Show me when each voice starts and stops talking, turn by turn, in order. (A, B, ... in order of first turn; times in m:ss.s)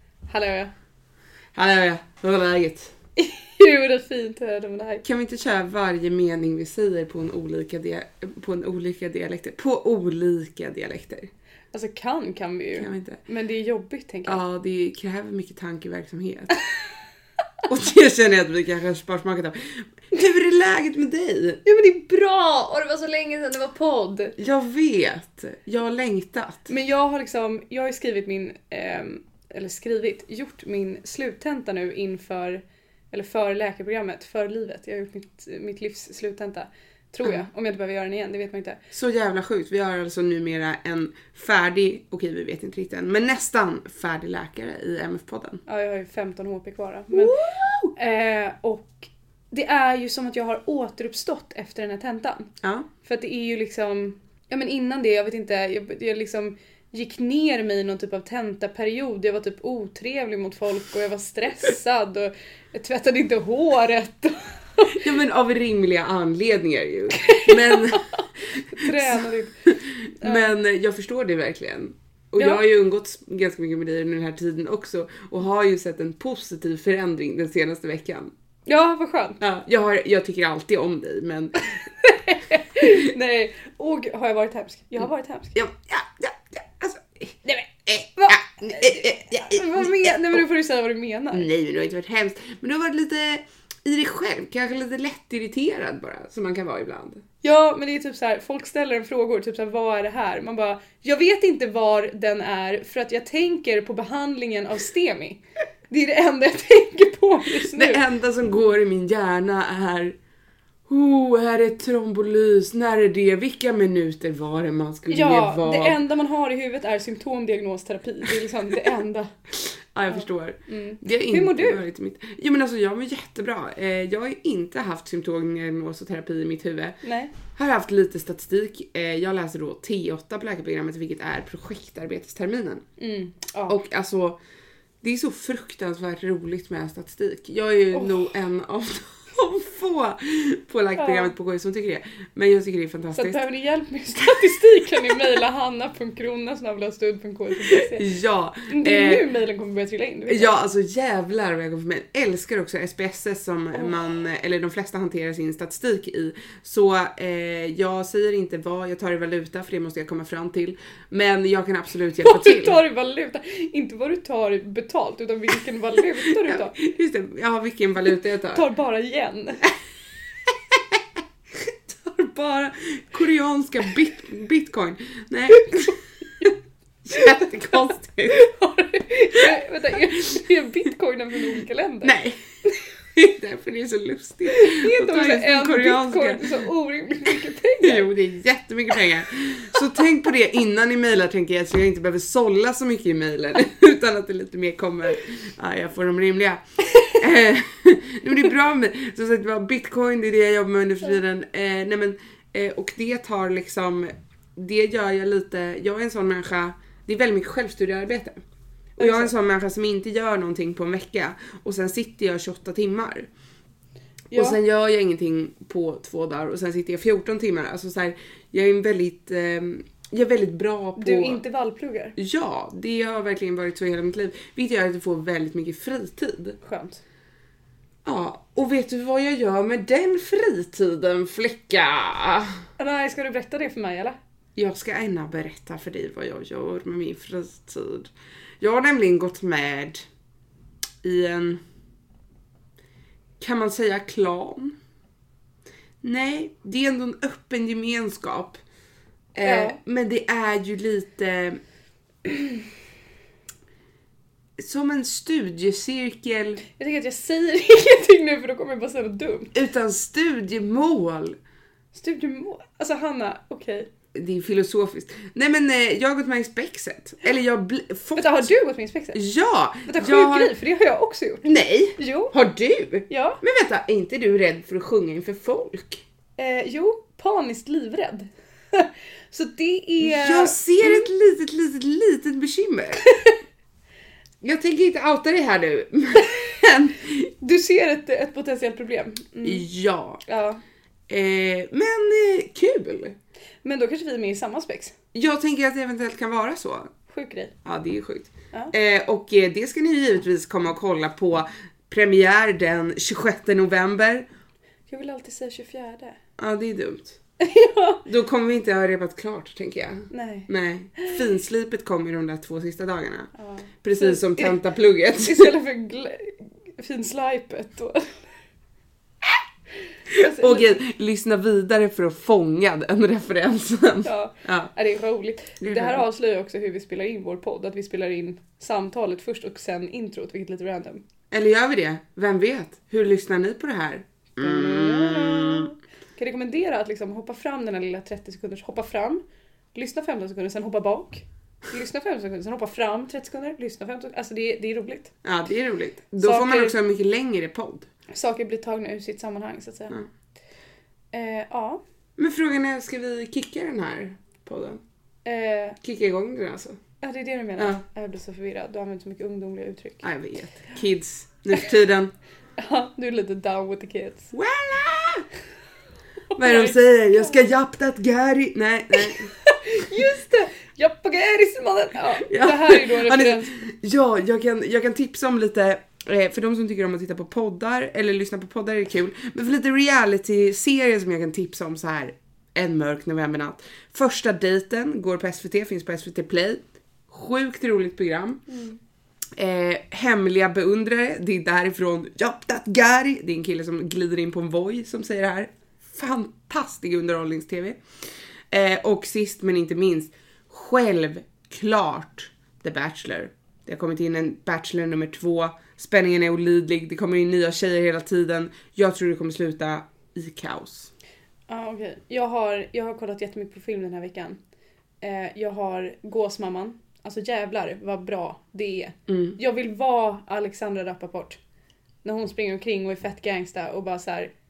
0:00.3-0:00.7 A
0:01.5-0:02.9 B
0:03.2-0:05.0 A
0:05.0-0:11.3 B
0:11.7-0:14.4 A
0:12.8-0:13.2 B
0:14.2-0:16.7 B
0:17.6-0:21.6 B
0:21.6-0:24.4 A
0:24.4-0:26.7 B
0:26.7-0:38.8 A
0:38.9-0:45.6 B
0:45.7-0:47.4 A
0:47.1-0:47.9 B
0:47.9-0:52.5 A
0:52.6-0:52.9 B
0:53.0-1:05.0 A
1:04.9-1:18.3 B
1:07.2-1:08.2 A
1:08.7-1:09.7 A
1:10.2-1:10.5 A
1:12.4-1:12.6 A
1:18.6-1:19.4 A
1:19.4-1:21.7 B
1:22.0-1:25.5 A
1:25.5-1:30.4 B
1:28.2-1:31.5 A
1:31.3-1:37.2 B
1:37.4-1:48.0 A
1:47.7-1:50.2 B
1:50.9-1:56.0 B
1:55.1-1:59.3 A
1:59.9-2:12.8 B
2:00.1-2:01.8 A
2:07.0-2:07.3 A
2:13.0-2:13.8 A
2:13.7-2:14.4 B
2:15.0-2:23.4 B
2:17.9-2:18.2 A
2:21.0-2:21.3 A
2:23.1-2:28.1 A
2:27.6-2:29.2 B
2:28.7-2:30.5 A
2:30.3-2:42.8 B
2:42.2-2:46.8 A
2:46.4-2:48.6 B
2:48.5-2:49.6 A
2:52.0-2:52.7 A
2:52.8-2:56.5 B
2:55.6-2:56.5 A
2:57.1-2:58.4 B
2:57.1-3:02.1 A
3:02.0-3:02.4 B
3:03.1-3:06.6 B
3:04.5-3:08.1 A
3:07.8-3:28.4 B
3:29.0-3:29.3 A
3:29.0-3:33.3 B
3:34.3-3:34.6 A
3:34.3-3:41.4 B
3:41.0-3:42.2 A
3:42.2-3:46.6 B
3:46.6-3:47.0 A
3:48.0-3:52.6 B
3:52.8-3:54.2 A
3:54.6-4:00.0 B
4:01.0-4:01.6 B
4:03.4-4:04.8 B
4:06.0-4:08.6 B
4:09.3-4:11.6 B
4:09.4-4:09.8 A
4:14.6-4:16.6 B
4:16.8-4:19.5 A
4:19.5-4:21.4 B
4:21.9-4:23.9 A
4:24.1-4:28.5 B
4:28.2-4:29.2 A
4:29.1-4:30.5 B
4:29.9-4:32.3 A
4:31.4-4:36.0 B
4:33.1-4:33.4 A
4:36.4-4:41.1 A
4:40.0-4:43.0 B
4:43.0-4:43.3 A
4:44.4-4:47.3 B
4:47.4-4:49.6 A
4:49.4-4:50.2 B
4:50.2-4:50.6 A
4:51.1-4:53.2 B
4:53.6-4:54.9 A
4:55.1-4:56.9 B
4:57.1-4:57.5 A
4:57.6-5:04.2 B
5:04.9-5:06.2 A
5:06.4-5:07.2 B
5:07.4-5:08.0 A
5:08.0-5:13.3 B
5:10.1-5:11.2 A
5:13.4-5:14.6 A
5:13.8-5:15.5 B
5:15.2-5:18.1 A
5:20.1-5:20.8 A
5:20.2-5:24.7 B
5:24.0-5:31.0 A
5:25.6-5:26.0 B
5:31.3-5:35.7 B
5:34.4-5:39.2 A
5:39.7-5:45.1 A
5:45.2-5:47.9 B
5:46.2-5:46.8 A
5:48.1-5:50.0 A
5:51.1-5:51.8 A
5:52.2-5:54.8 B
5:55.2-5:55.8 A
5:55.8-5:56.8 B
5:57.0-6:00.0 A
6:00.0-6:02.1 B
6:02.6-6:04.3 A
6:04.3-6:05.2 B
6:06.3-6:09.3 B
6:06.4-6:07.4 A
6:09.0-6:13.5 A
6:12.3-6:28.4 B
6:28.5-6:28.8 A
6:29.4-6:37.8 B
6:38.5-6:50.9 B
6:51.5-6:54.4 A
6:55.0-7:01.4 A
6:59.1-6:59.4 B
7:02.0-7:04.3 A